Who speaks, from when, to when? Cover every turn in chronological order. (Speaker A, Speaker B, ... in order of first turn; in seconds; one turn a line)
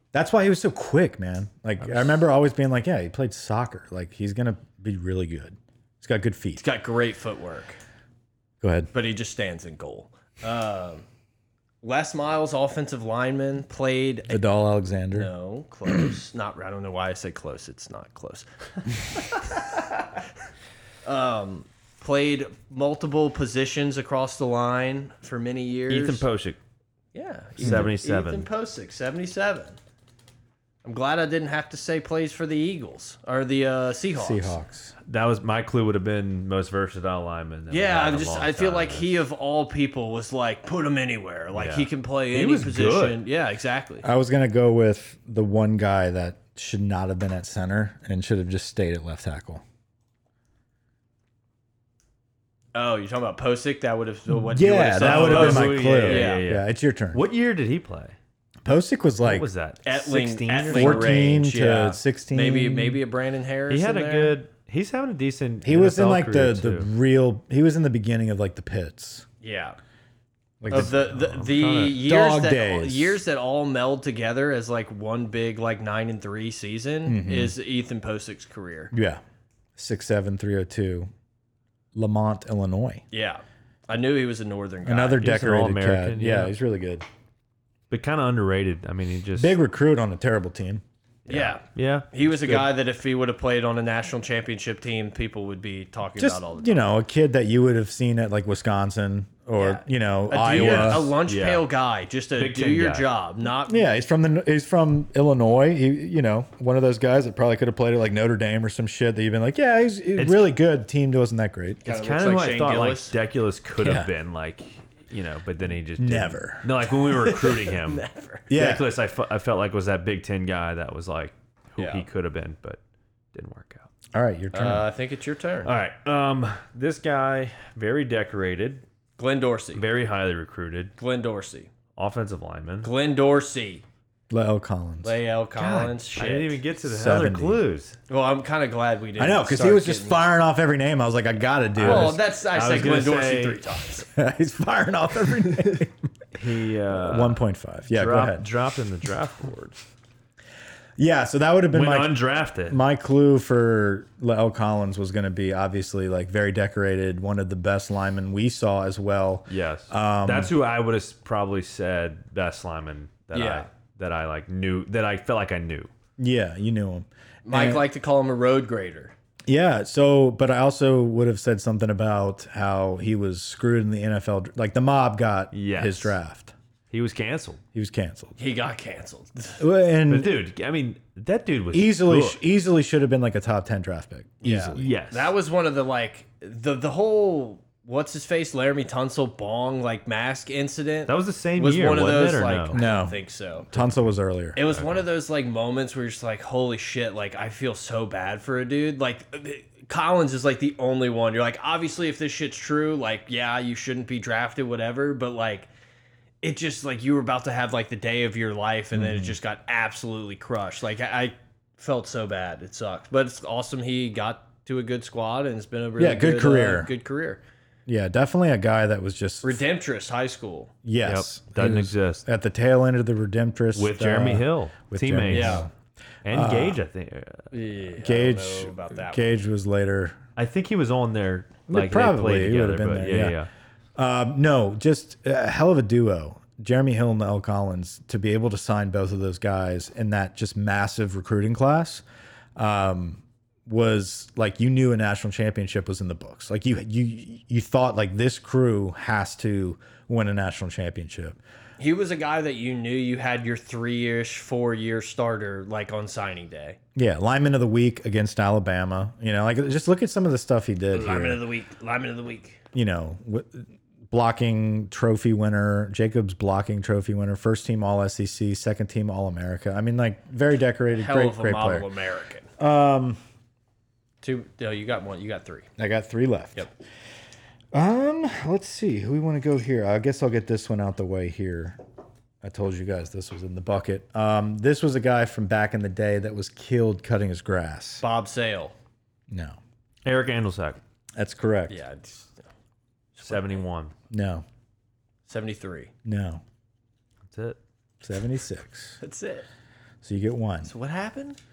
Speaker A: 0.1-6.6
Speaker B: 1.8-2.1
Speaker C: 6.6-7.8
Speaker A: 8.6-8.9
Speaker C: 8.9-11.0
Speaker C: 11.8-14.4
Speaker A: 14.3-15.3
Speaker C: 15.1-18.9
Speaker C: 21.0-26.2
Speaker B: 25.9-26.6
Speaker C: 27.1-29.8
Speaker B: 27.6-28.5
Speaker A: 27.6-27.9
Speaker C: 30.8-34.5
Speaker A: 34.2-34.9
Speaker B: 35.0-39.2
Speaker C: 37.7-44.0
Speaker B: 41.5-43.2
Speaker A: 44.0-49.6
Speaker C: 52.7-56.5
Speaker A: 54.3-57.2
Speaker B: 55.0-58.1
Speaker A: 58.6-59.5
Speaker B: 59.2-61.2
Speaker C: 59.8-64.3
Speaker A: 60.7-63.0
Speaker B: 63.7-66.9
Speaker A: 65.6-69.2
Speaker C: 69.4-69.8
Speaker A: 70.6-71.0
Speaker B: 70.7-72.0
Speaker C: 70.7-78.9
Speaker A: 72.0-73.2
Speaker A: 77.0-77.5
Speaker A: 78.9-79.2
Speaker A: 79.8-81.1
Speaker A: 81.9-83.0
Speaker C: 83.1-85.2
Speaker A: 84.8-87.0
Speaker B: 85.2-86.5
Speaker B: 87.9-89.6
Speaker A: 89.3-90.8
Speaker B: 91.3-92.6
Speaker C: 91.3-96.9
Speaker A: 96.2-101.1
Speaker C: 99.6-103.8
Speaker B: 100.5-101.7
Speaker B: 102.3-103.1
Speaker A: 103.7-111.8
Speaker B: 110.2-110.5
Speaker C: 111.8-113.1
Speaker B: 111.8-122.8
Speaker A: 113.8-114.1
Speaker A: 116.0-116.7
Speaker C: 117.1-118.5
Speaker A: 118.5-118.8
Speaker C: 121.8-122.0
Speaker B: 123.3-123.9
Speaker A: 124.1-124.9
Speaker C: 124.5-125.7
Speaker B: 125.6-128.8
Speaker C: 129.2-129.8
Speaker B: 129.7-130.9
Speaker C: 131.0-131.7
Speaker B: 131.9-132.9
Speaker C: 132.8-133.8
Speaker A: 134.3-135.9
Speaker C: 135.0-136.6
Speaker B: 136.1-138.0
Speaker A: 136.8-137.6
Speaker C: 138.1-140.2
Speaker A: 139.2-142.2
Speaker B: 141.8-143.6
Speaker C: 141.8-144.1
Speaker A: 144.1-145.9
Speaker B: 146.3-149.8
Speaker A: 146.9-148.4
Speaker A: 151.0-160.5
Speaker B: 151.7-152.8
Speaker B: 159.5-165.9
Speaker C: 163.3-163.7
Speaker A: 166.2-167.8
Speaker C: 167.4-169.1
Speaker A: 169.5-176.5
Speaker B: 175.5-176.2
Speaker B: 176.9-177.6
Speaker A: 177.7-178.3
Speaker C: 178.4-179.6
Speaker A: 179.6-180.3
Speaker B: 180.1-182.4
Speaker A: 181.7-184.9
Speaker C: 184.4-193.7
Speaker B: 184.7-185.3
Speaker B: 191.1-192.8
Speaker A: 192.7-193.2
Speaker A: 193.7-194.6
Speaker C: 194.6-205.7
Speaker B: 194.7-195.0
Speaker C: 206.4-217.4
Speaker A: 208.9-209.3
Speaker A: 216.0-216.9
Speaker A: 217.9-219.6
Speaker C: 219.4-220.7
Speaker A: 220.8-225.7
Speaker B: 221.0-222.2
Speaker B: 223.7-225.7
Speaker C: 225.3-225.7
Speaker B: 226.2-227.5
Speaker A: 226.3-226.8
Speaker C: 227.5-229.2
Speaker A: 228.0-230.2
Speaker B: 230.3-233.5
Speaker A: 231.7-233.4
Speaker A: 233.9-242.0
Speaker A: 242.6-251.4
Speaker C: 251.8-256.8
Speaker A: 256.9-261.4
Speaker C: 260.9-262.6
Speaker A: 262.7-271.9
Speaker C: 270.9-272.5
Speaker A: 272.6-273.2
Speaker C: 274.2-275.7
Speaker A: 275.8-276.7
Speaker A: 277.7-281.8
Speaker A: 282.4-288.0
Speaker C: 288.0-288.7
Speaker A: 289.3-289.6
Speaker B: 290.0-290.8
Speaker A: 291.2-291.8
Speaker C: 291.7-292.4
Speaker C: 293.1-293.6
Speaker B: 293.2-293.9
Speaker A: 294.1-294.4
Speaker C: 295.3-295.9
Speaker A: 296.0-296.4
Speaker B: 297.3-297.6
Speaker A: 298.0-299.0
Speaker C: 299.0-299.5
Speaker A: 300.0-300.7
Speaker C: 300.6-301.4